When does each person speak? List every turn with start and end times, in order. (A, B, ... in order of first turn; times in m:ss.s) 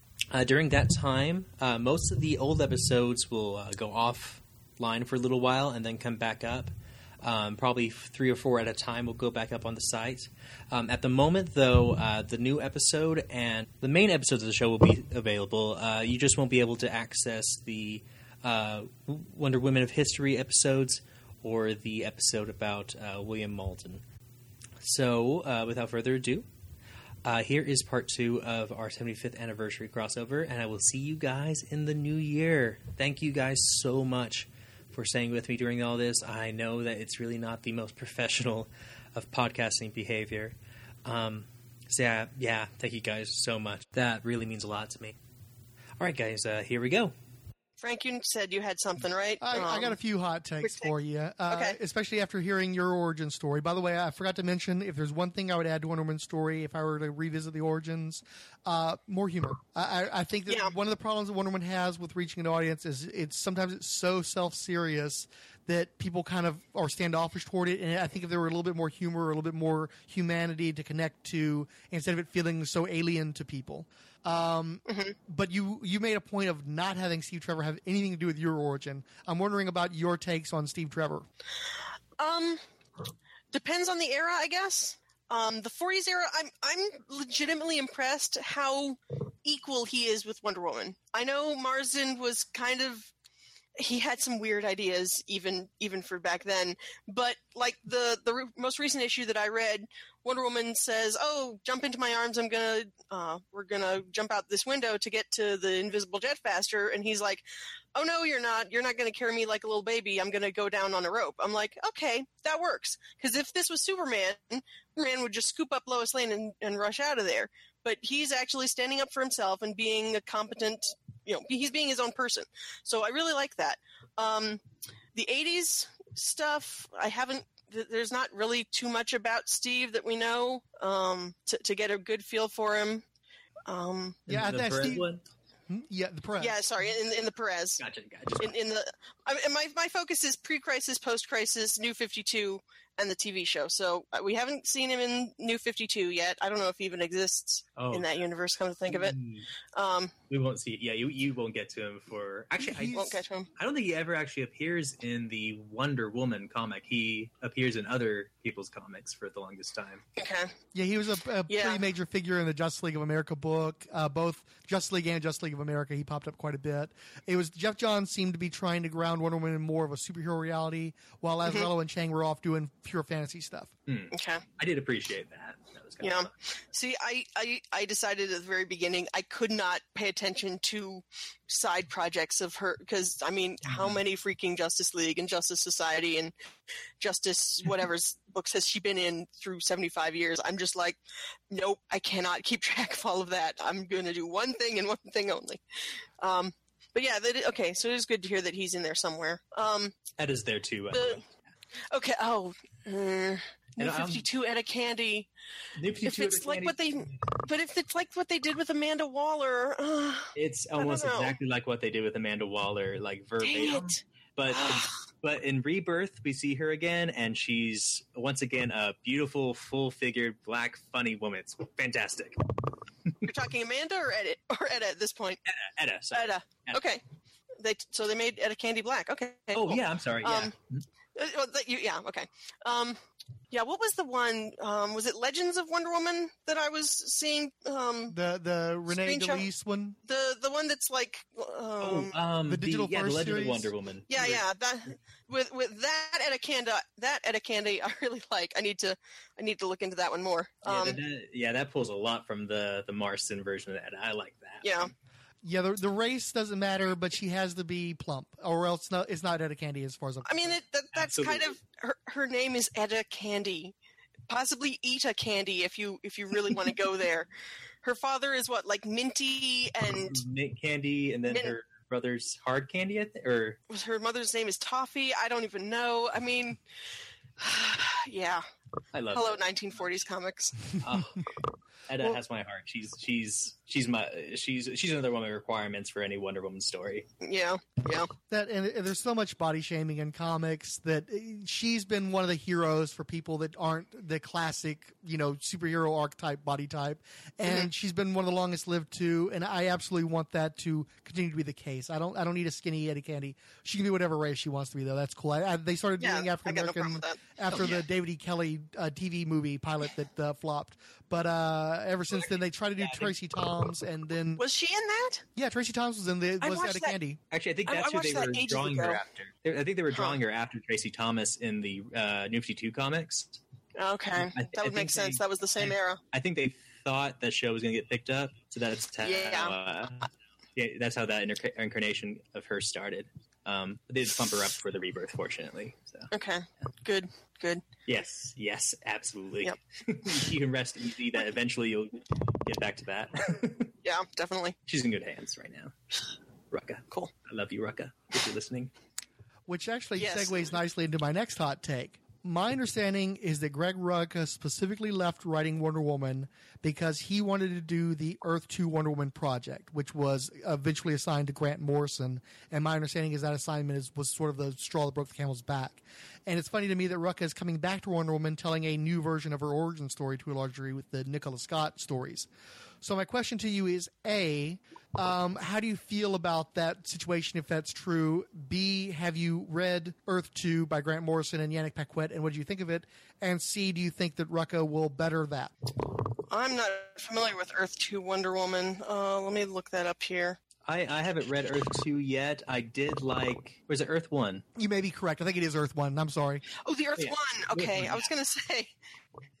0:00.3-0:24.0 A
0:24.8-0:26.5 A
0:27.2-0:45.2 A
0:46.0-0:47.1 A
0:47.8-0:50.0 B
0:49.4-1:21.2 C
0:50.6-0:50.9 B
0:51.5-0:51.8 B
1:00.5-1:00.7 B
1:14.9-1:15.1 B
1:22.2-1:22.6 B
1:23.5-1:33.1 B
1:33.8-2:04.6 B
2:05.1-2:13.0 B
2:13.6-2:14.2 B
2:14.3-2:15.2 A
2:14.3-2:15.1 C
2:15.7-2:16.6 C
2:16.4-2:17.8 B
2:17.8-2:18.5 A
2:18.4-2:29.2 B
2:27.8-2:28.0 A
2:28.9-2:29.5 A
2:29.7-2:30.1 B
2:30.3-2:40.0 A
2:32.6-2:33.1 C
2:32.9-2:33.5 B
2:40.2-2:40.5 B
2:40.7-2:53.7 C
2:41.5-2:41.8 B
2:53.9-2:56.3 A
2:54.1-2:54.4 B
2:56.0-3:06.3 B
3:03.7-3:04.0 A
3:07.0-3:11.0 B
3:11.5-3:15.6 B
3:16.2-3:20.0 B
3:20.2-3:21.2 A
3:20.9-3:21.2 B
3:21.9-3:25.3 B
3:23.8-3:24.2 A
3:25.8-3:27.1 A
3:26.0-3:31.3 B
3:30.3-3:42.4 A
3:33.4-3:34.9 B
3:43.2-3:45.4 B
3:45.5-3:46.8 A
3:46.1-3:47.0 B
3:47.6-3:50.5 B
3:49.5-3:50.8 A
3:51.1-3:53.0 B
3:53.5-3:58.2 B
3:58.1-4:00.0 C
3:58.9-3:59.5 B
4:00.0-4:02.2 B
4:01.8-4:04.4 A
4:02.5-4:03.7 C
4:04.1-4:11.0 B
4:10.6-4:14.9 A
4:14.6-4:14.9 B
4:15.4-4:20.6 C
4:20.2-4:23.7 B
4:20.9-4:21.6 A
4:24.3-4:27.3 B
4:27.8-4:30.2 B
4:30.0-4:33.6 A
4:31.3-4:31.5 B
4:33.7-4:36.6 B
4:37.4-4:38.4 B
4:38.9-4:40.0 A
4:39.1-4:40.8 B
4:40.8-4:41.2 A
4:41.9-4:47.1 A
4:47.2-4:48.1 B
4:48.3-5:14.4 C
5:06.0-5:07.2 B
5:07.5-5:07.8 A
5:12.1-5:13.1 A
5:14.4-5:15.2 B
5:15.4-5:17.2 C
5:16.4-5:17.0 B
5:17.3-5:23.4 A
5:17.7-5:19.0 B
5:23.8-5:26.0 B
5:24.2-5:36.1 A
5:29.0-5:29.5 B
5:36.1-5:37.6 B
5:37.9-5:43.7 A
5:43.8-5:44.6 B
5:44.7-5:45.7 A
5:46.5-5:48.7 A
5:49.5-6:12.3 C
5:50.0-5:50.5 B
6:12.8-6:25.5 C
6:26.3-6:30.4 B
6:30.6-6:34.4 A
6:34.6-6:36.4 C
6:36.6-6:38.7 B
6:37.0-6:38.1 A